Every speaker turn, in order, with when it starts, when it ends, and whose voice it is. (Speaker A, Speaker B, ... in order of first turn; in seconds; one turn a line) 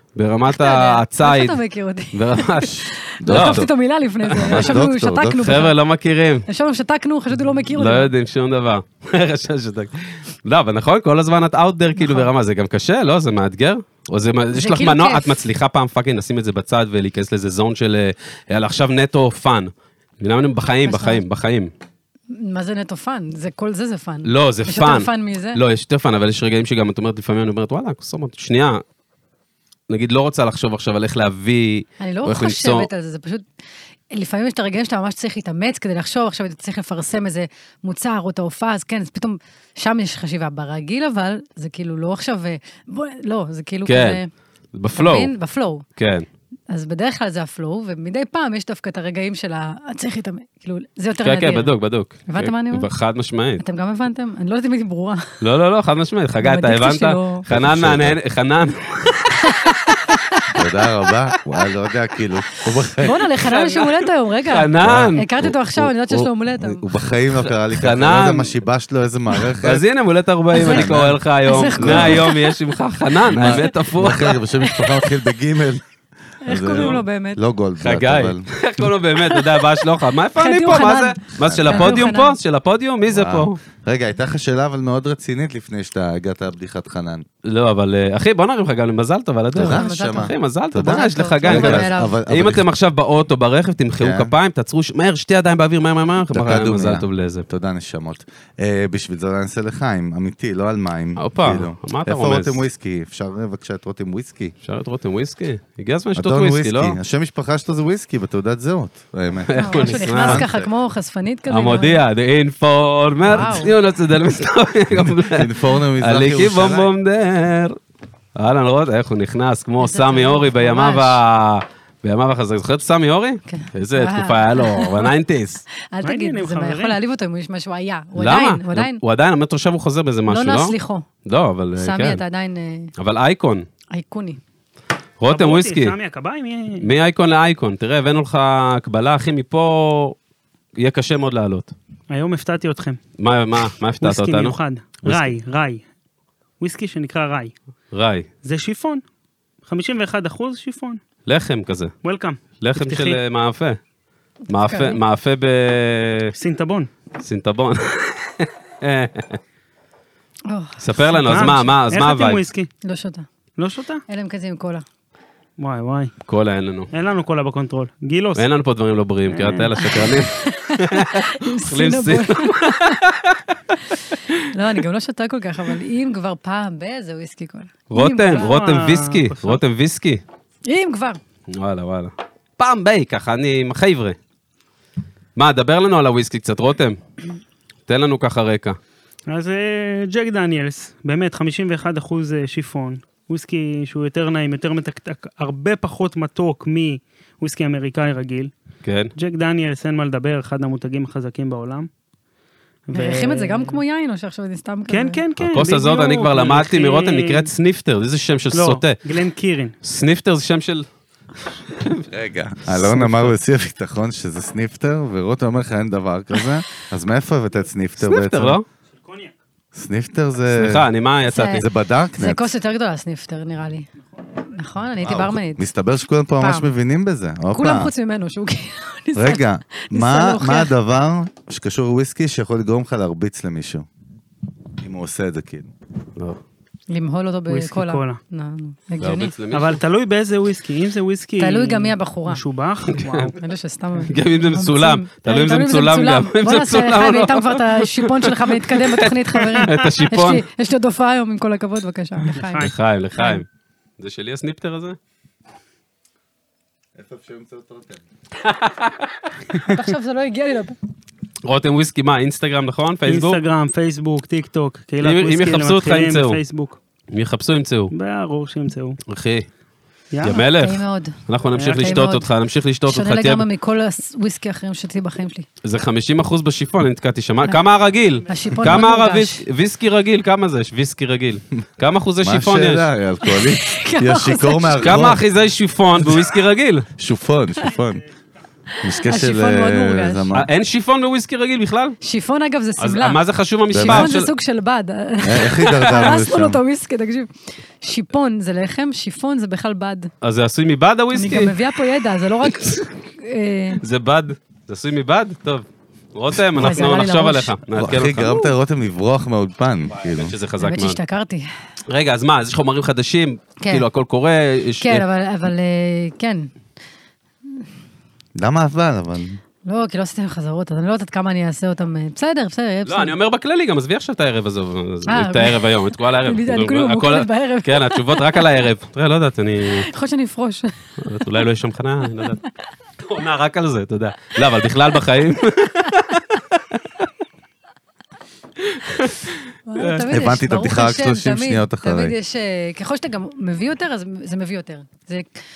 Speaker A: 0.1-1.6
Speaker B: 0.5-5.7
Speaker A: 2.1-3.7
Speaker C: 3.2-3.7
Speaker A: 4.2-4.8
Speaker C: 4.4-5.6
Speaker A: 5.4-6.5
Speaker B: 6.5-8.1
Speaker A: 7.8-21.7
Speaker B: 12.0-12.3
Speaker B: 14.5-15.4
Speaker B: 20.8-21.2
Speaker B: 22.3-25.6
Speaker A: 24.2-28.8
Speaker A: 29.9-32.9
Speaker B: 32.0-33.5
Speaker B: 34.1-44.3
Speaker A: 43.9-44.2
Speaker A: 44.7-45.3
Speaker B: 45.0-45.8
Speaker A: 46.0-46.2
Speaker B: 46.7-51.7
Speaker A: 51.2-53.6
Speaker B: 52.3-52.9
Speaker B: 53.6-55.4
Speaker A: 55.4-59.7
Speaker B: 56.4-57.4
Speaker C: 57.5-58.2
Speaker B: 59.4-60.6
Speaker C: 60.5-63.2
Speaker B: 63.0-66.8
Speaker A: 63.4-65.2
Speaker C: 64.8-69.8
Speaker A: 67.7-68.5
Speaker A: 69.6-74.4
Speaker B: 70.5-70.9
Speaker C: 70.6-71.2
Speaker B: 71.5-72.5
Speaker C: 71.8-72.3
Speaker C: 73.3-75.8
Speaker B: 73.4-73.7
Speaker B: 74.6-75.1
Speaker C: 76.4-78.5
Speaker B: 76.4-77.4
Speaker A: 77.8-83.6
Speaker B: 79.3-79.6
Speaker B: 80.3-82.4
Speaker C: 81.4-82.1
Speaker C: 83.1-87.2
Speaker A: 87.4-97.5
Speaker C: 89.5-92.6
Speaker B: 89.6-90.3
Speaker B: 90.8-92.2
Speaker C: 94.0-94.3
Speaker C: 96.3-104.5
Speaker A: 101.2-102.6
Speaker A: 104.6-107.0
Speaker C: 106.2-110.6
Speaker A: 109.5-110.5
Speaker B: 109.5-112.0
Speaker A: 111.5-117.8
Speaker B: 113.2-113.7
Speaker C: 115.1-116.9
Speaker A: 118.3-125.6
Speaker B: 119.8-121.2
Speaker B: 123.5-125.1
Speaker B: 125.8-129.0
Speaker D: 126.0-127.0
Speaker A: 128.2-130.7
Speaker B: 130.3-131.1
Speaker A: 131.2-132.2
Speaker B: 131.8-132.9
Speaker A: 133.0-133.7
Speaker B: 133.9-134.4
Speaker A: 135.2-135.9
Speaker D: 135.3-136.9
Speaker A: 136.8-140.2
Speaker A: 140.8-141.7
Speaker D: 142.1-143.0
Speaker A: 143.2-145.3
Speaker D: 144.0-145.8
Speaker D: 146.6-147.5
Speaker A: 147.9-148.3
Speaker D: 148.4-149.0
Speaker D: 149.6-151.0
Speaker A: 151.2-151.9
Speaker D: 152.0-153.2
Speaker A: 152.6-153.8
Speaker B: 154.5-155.0
Speaker A: 154.5-156.3
Speaker D: 156.3-156.9
Speaker A: 157.2-159.4
Speaker B: 160.5-161.6
Speaker A: 160.8-162.4
Speaker D: 161.2-162.7
Speaker B: 162.8-163.2
Speaker D: 163.6-164.0
Speaker B: 164.1-164.8
Speaker D: 165.6-166.1
Speaker A: 166.3-166.9
Speaker D: 166.9-168.5
Speaker A: 168.3-173.4
Speaker D: 169.3-169.9
Speaker B: 169.8-173.0
Speaker B: 174.4-178.6
Speaker A: 177.9-180.2
Speaker D: 178.4-179.6
Speaker B: 180.7-181.2
Speaker A: 181.5-184.2
Speaker A: 185.3-187.0
Speaker A: 187.9-188.8
Speaker D: 189.3-198.5
Speaker A: 198.8-199.1
Speaker D: 199.2-201.9
Speaker D: 202.9-203.8
Speaker B: 202.9-205.2
Speaker D: 204.9-207.5
Speaker A: 205.4-209.0
Speaker D: 208.5-209.7
Speaker A: 209.8-210.8
Speaker A: 211.7-212.0
Speaker C: 212.1-218.6
Speaker A: 212.7-213.3
Speaker A: 218.0-218.6
Speaker D: 218.9-219.3
Speaker C: 219.7-220.8
Speaker A: 220.5-221.7
Speaker B: 221.3-221.7
Speaker C: 221.5-222.5
Speaker B: 222.2-223.9
Speaker B: 224.4-225.7
Speaker C: 225.0-227.9
Speaker B: 226.4-226.7
Speaker B: 227.5-230.7
Speaker C: 229.1-233.8
Speaker C: 234.8-235.7
Speaker B: 236.9-239.3
Speaker D: 237.5-238.2
Speaker A: 239.0-239.8
Speaker D: 239.5-243.4
Speaker B: 241.4-242.4
Speaker A: 242.9-243.3
Speaker B: 243.3-253.4
Speaker A: 244.1-250.4
Speaker D: 252.3-252.7
Speaker A: 252.6-253.4
Speaker A: 254.0-255.0
Speaker C: 256.9-258.0
Speaker A: 258.4-259.3
Speaker B: 259.6-260.8
Speaker A: 261.4-263.4
Speaker D: 263.1-266.8
Speaker A: 265.0-266.4
Speaker A: 267.1-267.9
Speaker D: 267.9-269.0
Speaker A: 269.1-269.5
Speaker D: 270.1-270.4
Speaker A: 270.2-273.4
Speaker B: 270.2-271.2
Speaker D: 271.6-272.0
Speaker B: 271.7-272.3
Speaker B: 272.9-275.4
Speaker A: 275.6-282.9
Speaker B: 278.3-279.4
Speaker C: 282.2-285.2
Speaker B: 283.2-285.1
Speaker A: 284.8-286.9
Speaker C: 286.0-286.3
Speaker C: 287.0-288.0
Speaker B: 288.7-290.3
Speaker C: 288.8-290.5
Speaker A: 290.3-292.0
Speaker B: 292.0-293.2
Speaker A: 292.8-294.3
Speaker C: 293.7-294.1
Speaker B: 293.7-297.3
Speaker C: 295.2-296.6
Speaker A: 295.6-296.1
Speaker B: 297.8-300.1
Speaker A: 300.2-301.6
Speaker B: 301.1-303.8
Speaker A: 303.8-308.4
Speaker B: 306.5-307.6
Speaker C: 307.7-310.3
Speaker A: 310.0-311.0
Speaker B: 310.6-311.5
Speaker A: 311.9-315.0
Speaker B: 313.6-313.8
Speaker B: 314.8-316.5
Speaker C: 318.4-319.4
Speaker B: 319.6-323.1
Speaker A: 322.9-329.9
Speaker B: 325.1-328.4
Speaker B: 329.7-331.4
Speaker A: 331.0-332.4
Speaker A: 333.0-336.2
Speaker A: 338.6-340.0
Speaker B: 339.7-345.3
Speaker C: 340.1-342.1